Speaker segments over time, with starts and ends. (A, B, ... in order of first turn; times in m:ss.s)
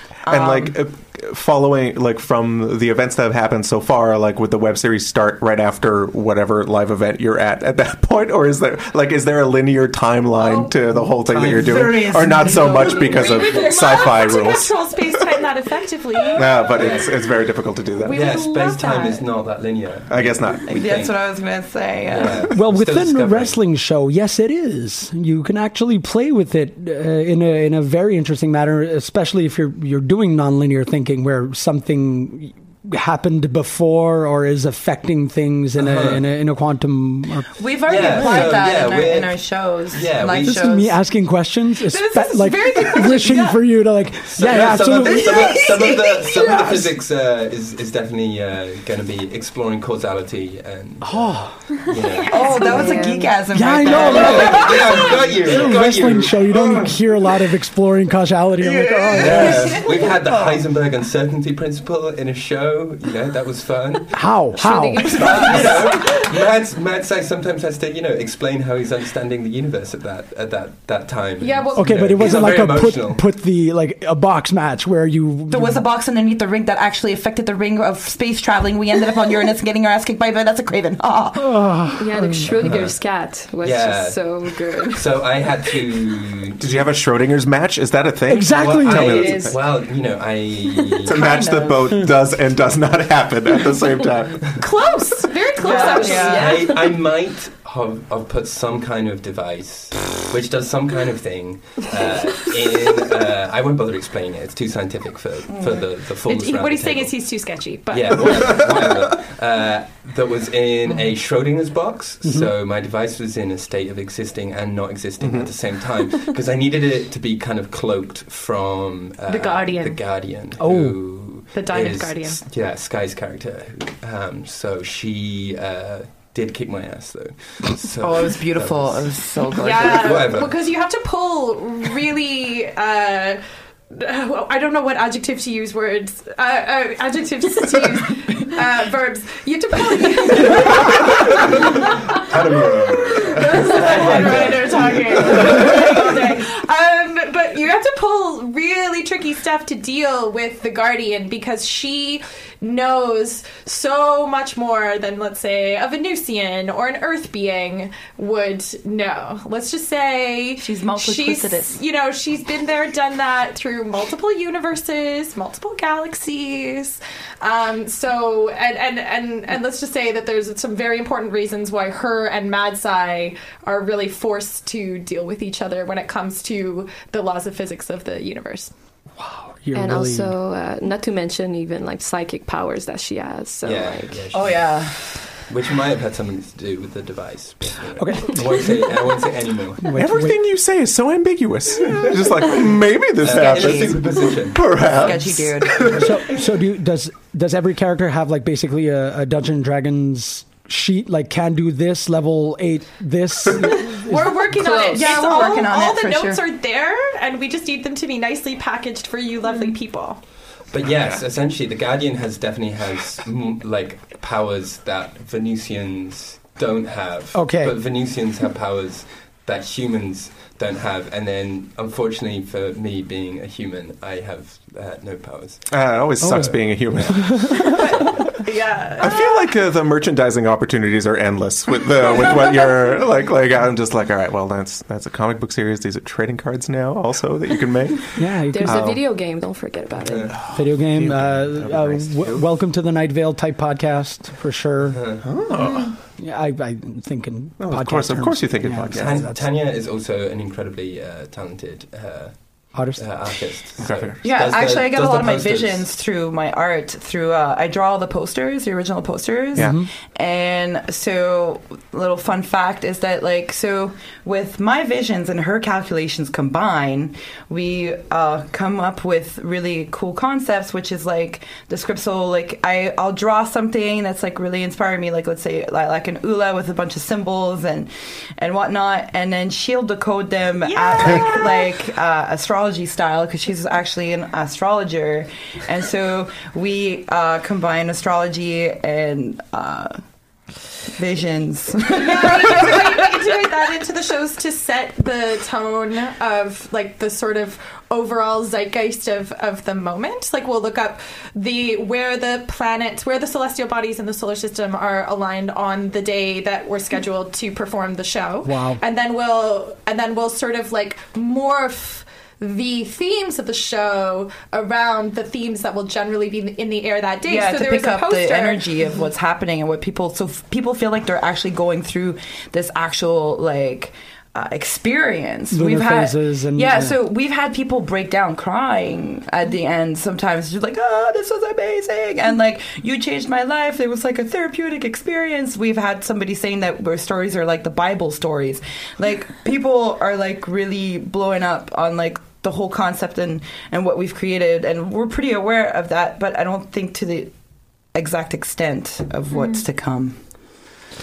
0:00.2-0:00.8 A
0:00.2-0:15.0 B
0:10.4-0:10.7 C
0:11.2-0:12.2 D
0:12.6-0:16.8 C
0:16.3-0:18.2 B
0:16.4-0:17.3 D
0:18.0-0:19.3 C
0:18.1-0:23.6 D
0:20.1-0:20.6 B
0:20.7-0:22.5 A
0:22.5-0:38.9 E
0:35.8-0:36.3 D
0:37.6-0:41.0 A
0:37.8-0:40.6 D
0:40.2-0:45.7 E
0:41.9-0:43.6 C
0:44.3-0:53.0 D
0:44.9-0:46.9 A
0:51.0-0:51.9 E
0:52.3-0:55.4 A
0:52.5-0:53.3 F
0:53.5-1:00.6 E
0:53.9-0:57.1 D
0:58.6-0:59.7 A
0:59.2-1:04.5 D
1:04.1-1:05.5 E
1:04.6-1:05.8 F
1:05.1-1:06.2 C
1:05.1-1:13.3 D
1:11.4-1:12.7 C
1:11.7-1:15.8 E
1:15.5-1:21.8 A
1:21.4-1:22.6 E
1:22.0-1:25.3 F
1:22.6-1:23.0 D
1:23.6-1:26.6 D
1:26.6-1:29.6 B
1:28.3-1:29.5 E
1:28.6-1:31.1 D
1:31.0-1:34.6 B
1:31.1-1:31.9 A
1:34.6-1:36.9 C
1:35.6-1:36.7 A
1:35.7-1:36.2 F
1:36.0-2:10.7 D
1:45.5-1:45.9 A
1:46.2-1:48.6 C
1:52.2-1:52.5 E
1:55.2-1:56.0 B
1:59.3-2:00.0 C
2:00.5-2:01.4 E
2:01.5-2:02.4 C
2:08.0-2:10.2 A
2:09.5-2:22.2 C
2:22.1-2:26.3 D
2:23.0-2:58.7 C
2:40.6-2:41.8 A
2:59.2-3:00.4 E
2:59.7-3:04.2 F
3:03.6-3:09.8 D
3:04.3-3:05.1 A
3:08.0-3:08.9 E
3:09.8-3:10.4 E
3:09.9-3:16.0 B
3:13.2-3:15.2 D
3:13.3-3:14.0 A
3:14.7-3:16.0 A
3:15.8-3:16.1 D
3:16.0-3:24.8 E
3:23.9-3:30.2 C
3:24.5-3:25.0 F
3:24.8-3:26.4 A
3:30.6-3:47.0 D
3:31.0-3:31.2 B
3:37.3-3:37.8 E
3:45.7-3:47.7 B
3:46.2-3:47.7 E
3:47.8-3:49.4 C
3:49.0-3:59.0 B
3:58.2-3:58.9 E
3:58.5-4:00.3 F
4:00.0-4:00.3 D
4:00.3-4:02.5 B
4:00.5-4:09.5 E
4:04.9-4:05.2 D
4:05.2-4:06.0 B
4:07.6-4:09.3 B
4:08.9-4:15.9 D
4:12.7-4:13.5 E
4:13.8-4:14.5 B
4:14.2-4:50.0 A
4:19.6-4:19.9 E
4:40.6-4:41.7 C
4:50.9-4:53.4 A
4:52.0-5:18.9 C
5:08.4-5:08.8 E
5:17.2-5:50.5 A
5:25.5-5:27.0 E